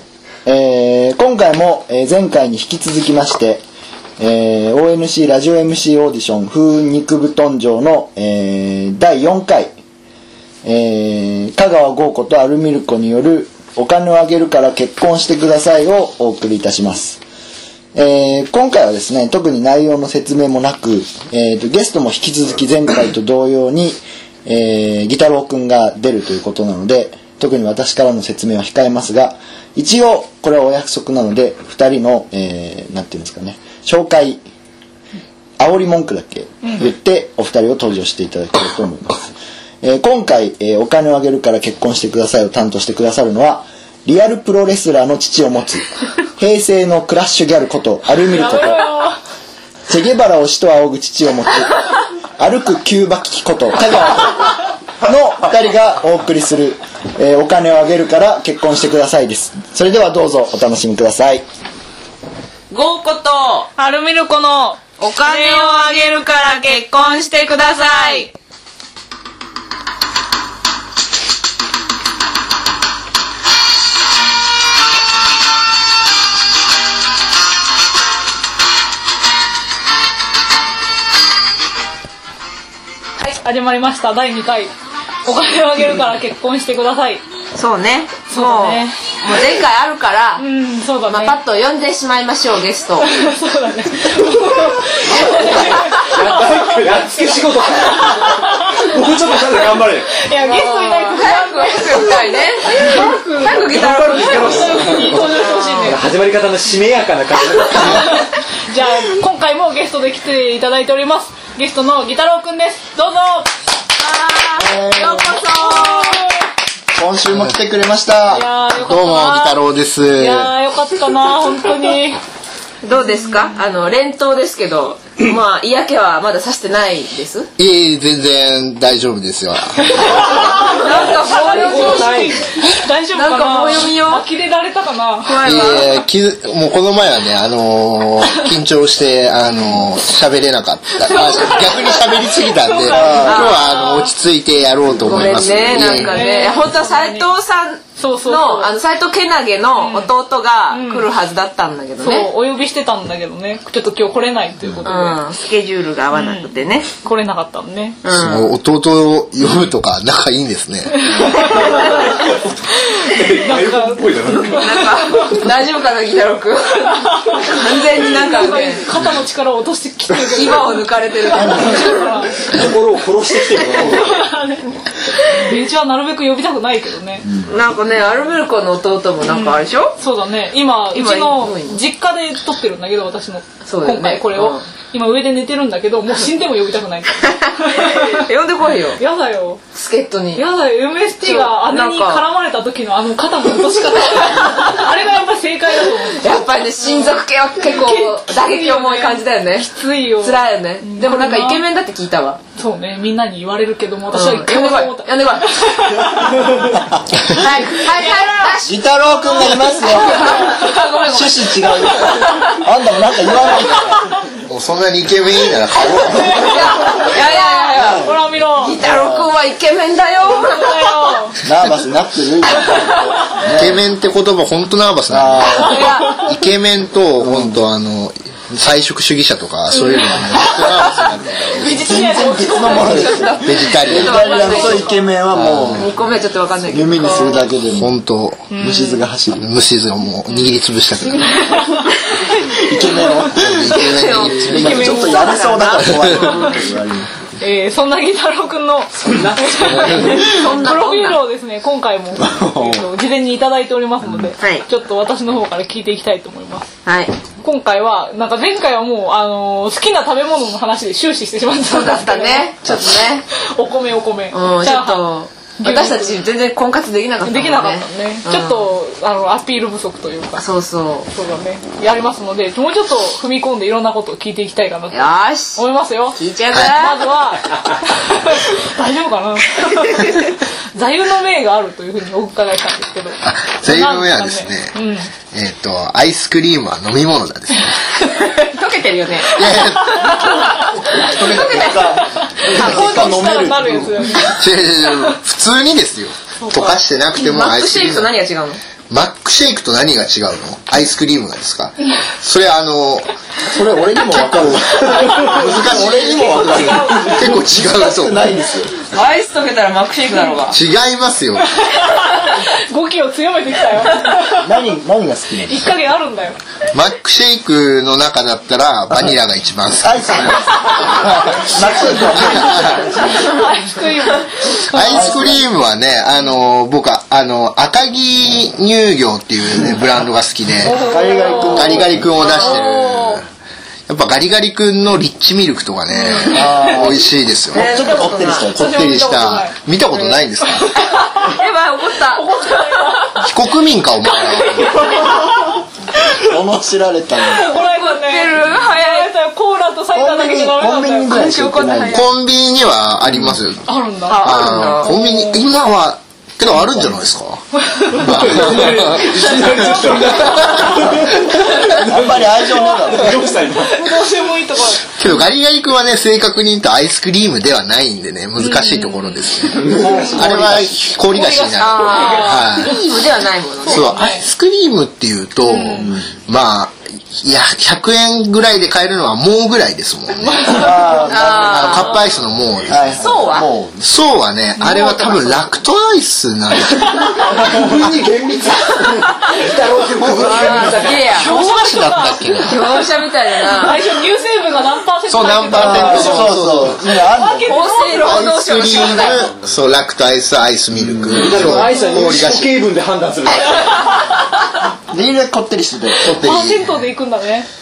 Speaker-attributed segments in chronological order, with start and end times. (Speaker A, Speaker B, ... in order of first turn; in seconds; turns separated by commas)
Speaker A: 0.5-3.6, Speaker A: 4.2-9.7, Speaker A: 10.6-17.2, Speaker A: 17.9-34.4, Speaker A: 35.6-48.8, Speaker B: 48.2-49.2, Speaker A: 49.9-51.8, Speaker A: 52.4-61.4, Speaker C: 62.7-63.7, Speaker B: 63.8-65.9, Speaker C: 65.0-68.3, Speaker B: 83.2-84.7, Speaker B: 85.2-87.2, Speaker C: 87.5-90.4, Speaker B: 88.3-89.0, Speaker B: 90.4-91.3, Speaker C: 91.1-93.1, Speaker B: 93.0-98.9, Speaker D: 95.3-100.1, Speaker B: 100.2-106.0, Speaker C: 100.4-106.0, Speaker D: 103.6-108.2, Speaker B: 107.7-113.5, Speaker C: 114.0-116.2, Speaker A: 114.6-115.4, Speaker B: 115.2-116.4, Speaker A: 116.9-118.5, Speaker B: 118.3-119.6, Speaker E: 118.7-120.5, Speaker B: 120.2-122.2, Speaker C: 122.8-127.5, Speaker B: 123.2-123.5, Speaker E: 127.6-130.3, Speaker B: 130.0-135.4, Speaker C: 130.2-132.5, Speaker D: 131.8-132.3, Speaker C: 133.1-134.2, Speaker C: 135.2-135.9, Speaker E: 135.4-146.2, Speaker B: 141.0-144.1, Speaker A: 142.9-143.4, Speaker C: 143.0-143.8, Speaker C: 145.0-152.3, Speaker B: 146.0-147.2, Speaker B: 148.0-148.7, Speaker B: 149.8-150.1, Speaker B: 150.7-151.1, Speaker B: 152.0-155.2, Speaker C: 154.8-156.9, Speaker B: 156.1-156.5, Speaker B: 157.0-158.0, Speaker C: 158.0-158.5, Speaker E: 158.1-161.1, Speaker B: 161.0-161.9, Speaker D: 161.4-162.4, Speaker B: 162.8-165.4, Speaker D: 163.0-164.6, Speaker C: 164.6-168.8, Speaker B: 166.9-172.5, Speaker C: 170.3-171.9, Speaker A: 171.3-171.9, Speaker D: 172.5-174.3, Speaker B: 173.9-174.7, Speaker B: 175.3-177.3, Speaker A: 177.2-177.5, Speaker C: 177.4-179.9, Speaker B: 179.3-188.3, Speaker C: 180.9-181.8, Speaker C: 183.7-184.6, Speaker C: 187.3-189.0, Speaker B: 189.0-189.6, Speaker C: 189.8-190.4, Speaker B: 190.3-201.6, Speaker C: 191.2-192.2, Speaker C: 194.1-194.8, Speaker C: 196.2-202.4, Speaker B: 202.6-206.8, Speaker C: 204.1-205.5, Speaker C: 207.3-212.6, Speaker B: 207.3-210.8, Speaker A: 208.6-210.5, Speaker A: 211.0-214.0, Speaker E: 214.4-216.5, Speaker A: 215.8-216.2, Speaker C: 215.9-221.1, Speaker B: 215.9-218.8, Speaker A: 218.8-219.3, Speaker B: 220.2-221.4, Speaker A: 221.4-223.8, Speaker B: 222.8-223.3, Speaker E: 223.5-231.9, Speaker A: 225.1-225.9, Speaker C: 225.5-226.2, Speaker A: 227.2-227.6, Speaker B: 229.7-230.9, Speaker B: 231.4-233.4, Speaker A: 231.6-235.9, Speaker C: 232.6-235.0, Speaker E: 233.4-234.4, Speaker B: 234.1-235.0, Speaker E: 235.3-235.9, Speaker C: 235.5-237.4, Speaker A: 236.7-237.9, Speaker B: 237.0-237.4, Speaker E: 237.8-238.6, Speaker B: 238.5-239.0, Speaker A: 238.6-239.4, Speaker E: 239.4-241.6, Speaker B: 241.2-243.3, Speaker A: 242.4-247.1, Speaker E: 243.3-244.9, Speaker C: 243.7-246.6, Speaker B: 244.6-245.4, Speaker B: 246.2-246.5, Speaker B: 247.4-256.7, Speaker D: 249.1-250.0, Speaker C: 249.6-251.2, Speaker E: 249.7-250.2, Speaker A: 252.2-252.8, Speaker C: 254.4-254.6, Speaker C: 256.8-257.1, Speaker B: 257.4-262.8, Speaker C: 261.6-263.2, Speaker B: 263.4-265.1, Speaker C: 264.3-268.7, Speaker B: 265.6-266.2, Speaker B: 267.2-270.4, Speaker C: 270.4-271.1, Speaker B: 271.1-285.1, Speaker C: 274.9-275.6, Speaker C: 276.1-277.1, Speaker C: 279.7-280.4, Speaker E: 283.2-284.7, Speaker E: 285.3-288.0, Speaker C: 288.2-291.9, Speaker E: 289.3-291.9, Speaker B: 289.4-290.7, Speaker A: 291.1-294.2, Speaker B: 291.9-294.4, Speaker C: 292.5-292.9, Speaker E: 292.6-293.1, Speaker E: 294.1-298.1, Speaker B: 296.4-296.8, Speaker C: 297.1-298.6, Speaker E: 298.9-303.1, Speaker A: 303.4-308.7, Speaker E: 304.1-308.2, Speaker B: 306.3-307.2, Speaker C: 308.9-310.6, Speaker E: 310.5-311.5, Speaker B: 311.6-314.6, Speaker A: 314.4-315.7, Speaker B: 315.4-316.4, Speaker E: 316.7-322.9, Speaker A: 318.9-319.2, Speaker A: 319.8-323.4, Speaker B: 322.6-325.3, Speaker E: 324.7-330.8, Speaker A: 324.7-325.5, Speaker A: 330.6-332.3, Speaker B: 330.6-333.2, Speaker E: 331.5-333.2, Speaker C: 332.2-333.1, Speaker E: 333.9-340.7, Speaker B: 335.9-336.4, Speaker C: 336.0-336.4, Speaker A: 336.2-338.7, Speaker C: 337.5-338.5, Speaker B: 338.6-339.6, Speaker C: 339.9-340.2, Speaker B: 340.6-341.4, Speaker C: 340.8-343.1, Speaker B: 342.1-343.2, Speaker E: 343.2-344.9, Speaker B: 344.6-345.6, Speaker A: 346.1-347.6, Speaker B: 347.3-351.2, Speaker C: 347.8-349.1, Speaker A: 349.9-352.0, Speaker C: 351.0-352.1, Speaker E: 351.9-353.7, Speaker A: 353.1-353.3, Speaker B: 353.6-355.4, Speaker C: 354.1-354.9, Speaker E: 354.2-360.9, Speaker B: 357.6-358.2, Speaker D: 357.9-363.9, Speaker A: 360.7-363.2, Speaker B: 362.6-365.2, Speaker E: 364.9-372.8, Speaker B: 368.4-370.2, Speaker A: 369.6-370.9, Speaker B: 371.1-372.8, Speaker C: 371.6-373.9, Speaker B: 373.6-374.3, Speaker E: 373.7-380.7, Speaker B: 375.4-375.9, Speaker A: 375.8-376.1, Speaker B: 380.1-381.3, Speaker A: 380.5-381.9, Speaker C: 381.1-382.0, Speaker E: 381.3-383.3, Speaker A: 382.7-383.8, Speaker C: 383.0-383.5, Speaker E: 383.8-387.5, Speaker B: 384.6-385.2, Speaker C: 384.6-385.4, Speaker B: 386.7-387.1, Speaker D: 387.3-391.1, Speaker A: 387.4-387.8, Speaker E: 390.0-392.6, Speaker C: 390.1-391.3, Speaker B: 391.1-392.8, Speaker C: 392.4-393.8, Speaker B: 393.5-398.3, Speaker E: 395.1-396.8, Speaker A: 395.5-397.6, Speaker C: 397.4-399.3, Speaker E: 397.9-402.5, Speaker A: 400.7-401.4, Speaker D: 401.1-404.0, Speaker B: 401.5-402.2, Speaker A: 404.9-406.4, Speaker E: 406.0-406.8, Speaker B: 406.2-407.5